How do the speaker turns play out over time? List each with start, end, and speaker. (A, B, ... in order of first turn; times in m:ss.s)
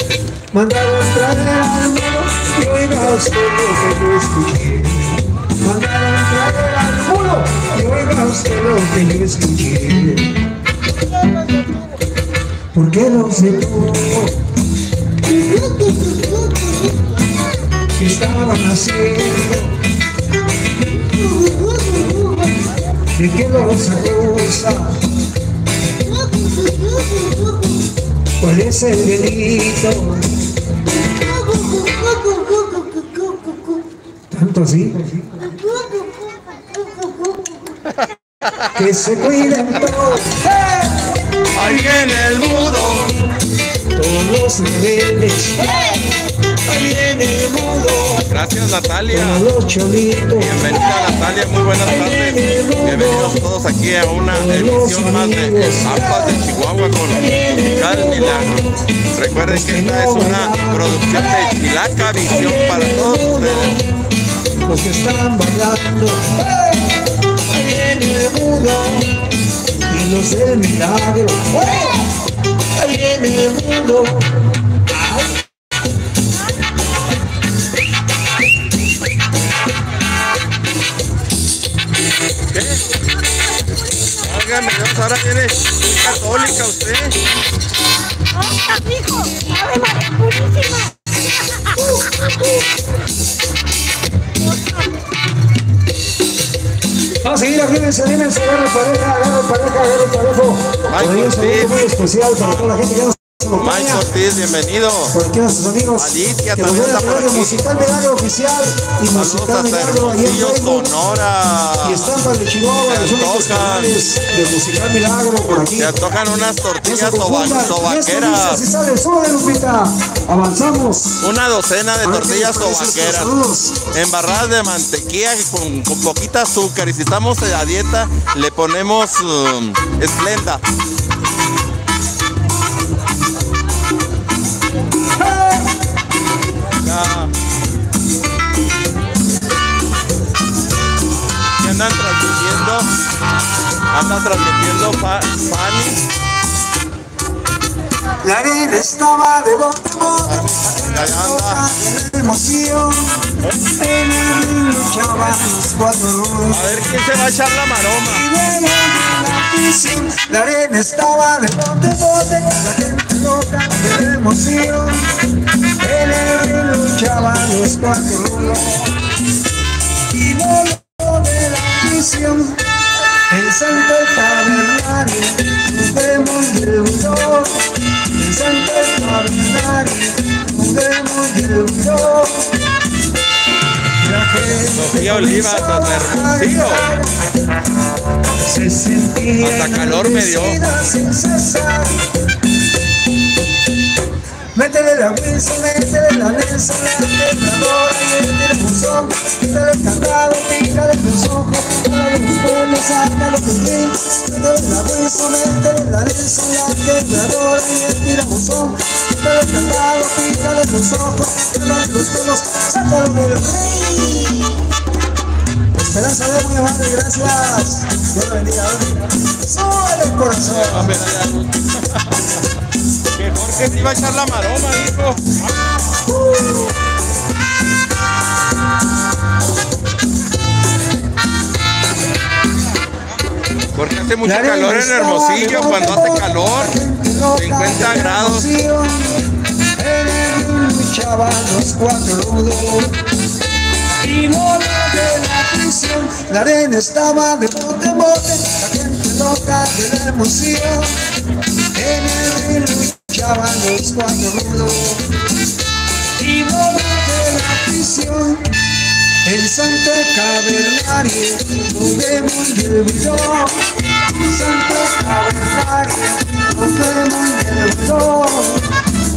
0:00.5-0:10.4 A
0:12.7-0:14.4 A
0:17.9-0:19.8 A
0:23.1-0:25.0 A
0:26.4-0:27.3 B
0:28.4-0:30.3 A
0:31.8-0:32.8 B
0:34.3-0:35.5 A
0:37.9-0:38.8 C
0:38.7-0:42.1 A
0:41.5-0:43.1 C
0:43.9-0:46.0 A
0:46.5-0:48.3 A
0:48.3-0:49.4 C
0:49.1-0:51.2 A
0:50.4-0:58.6 C
0:51.8-0:53.4 A
0:54.3-0:56.4 A
0:57.1-0:58.7 A
0:59.1-1:03.8 C
0:59.4-1:01.6 A
1:02.1-1:03.9 A
1:04.6-1:09.3 A
1:09.9-1:12.1 A
1:12.7-1:15.4 A
1:22.5-1:22.8 C
1:24.2-1:27.2 C
1:28.6-1:30.8 B
1:37.2-1:44.0 A
1:40.9-1:41.8 C
1:43.6-1:45.1 C
1:45.1-1:50.9 A
1:46.0-1:47.6 C
1:49.1-1:52.1 C
1:51.8-1:55.9 A
1:52.9-1:53.9 C
1:55.8-1:58.6 C
1:56.8-2:01.2 A
2:01.2-2:03.3 C
2:02.0-2:03.8 A
2:03.9-2:10.6 C
2:15.2-2:15.7 A
2:16.8-2:17.3 C
2:21.6-2:22.9 C
2:23.9-2:26.0 C
2:28.2-2:36.7 A
2:30.3-2:31.6 C
2:36.5-2:38.2 C
2:38.1-2:45.1 A
2:45.8-2:49.0 A
2:50.1-2:52.6 A
2:53.3-3:02.6 A
3:04.0-3:07.1 A
3:04.7-3:06.8 C
3:08.4-3:12.1 A
3:09.4-3:10.6 C
3:14.5-3:34.6 A
3:35.7-3:41.0 A
3:40.4-3:42.2 C
3:43.1-3:45.7 C
3:46.0-3:46.7 A
3:53.7-3:56.8 C
3:54.2-4:03.0 A
3:57.4-3:58.5 C
4:04.0-4:10.9 A
4:11.7-4:15.1 A
4:16.2-4:18.6 A
4:19.2-4:28.7 A